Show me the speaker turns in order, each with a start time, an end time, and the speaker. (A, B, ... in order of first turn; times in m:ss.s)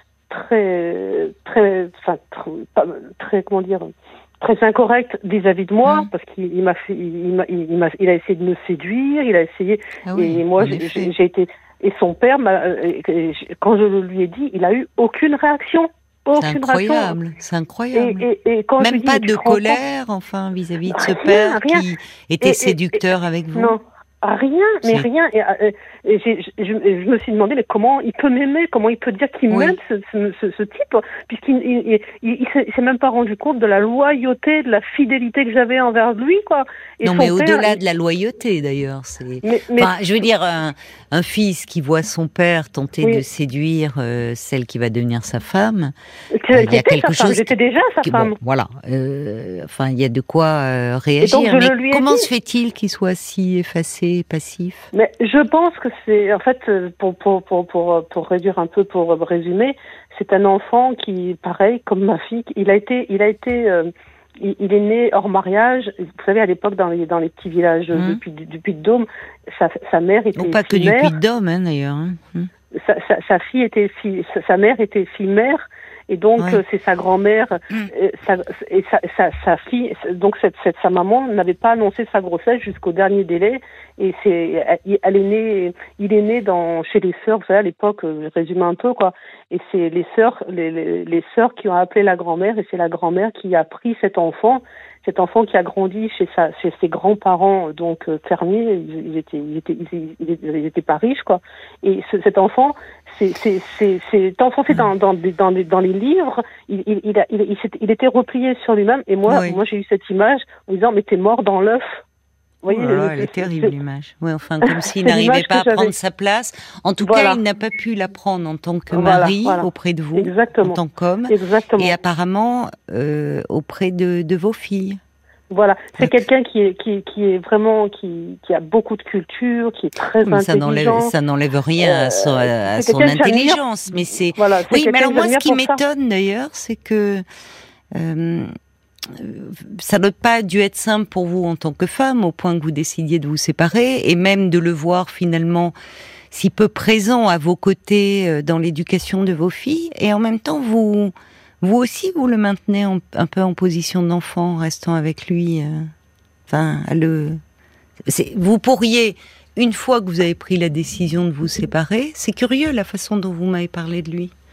0:00.3-0:17.2 A
0:10.0-0:11.1 B
0:16.4-0:18.2 B
0:17.9-0:19.8 A
0:18.8-0:23.8 B
0:20.9-0:21.8 A
0:22.4-0:22.9 A
0:23.5-0:37.8 A
0:29.5-0:29.8 B
0:37.0-0:45.9 B
0:39.4-0:39.9 A
0:46.4-0:48.4 A
0:46.5-0:47.5 B
0:48.0-0:54.9 B
0:51.2-0:52.3 A
0:54.9-1:11.1 A
1:07.9-1:08.2 B
1:10.4-1:12.5 B
1:12.7-1:52.0 A
1:49.3-1:49.6 B
1:52.6-1:53.7 A
1:52.7-2:05.0 B
1:54.6-1:55.9 A
1:57.0-1:57.4 A
1:58.9-2:01.9 A
2:05.5-2:11.1 A
2:10.2-2:17.2 B
2:11.8-2:13.6 A
2:14.4-2:15.8 A
2:17.9-2:18.5 B
2:19.1-2:25.7 B
2:26.3-2:35.9 B
2:36.5-2:37.4 B
2:38.1-2:44.3 B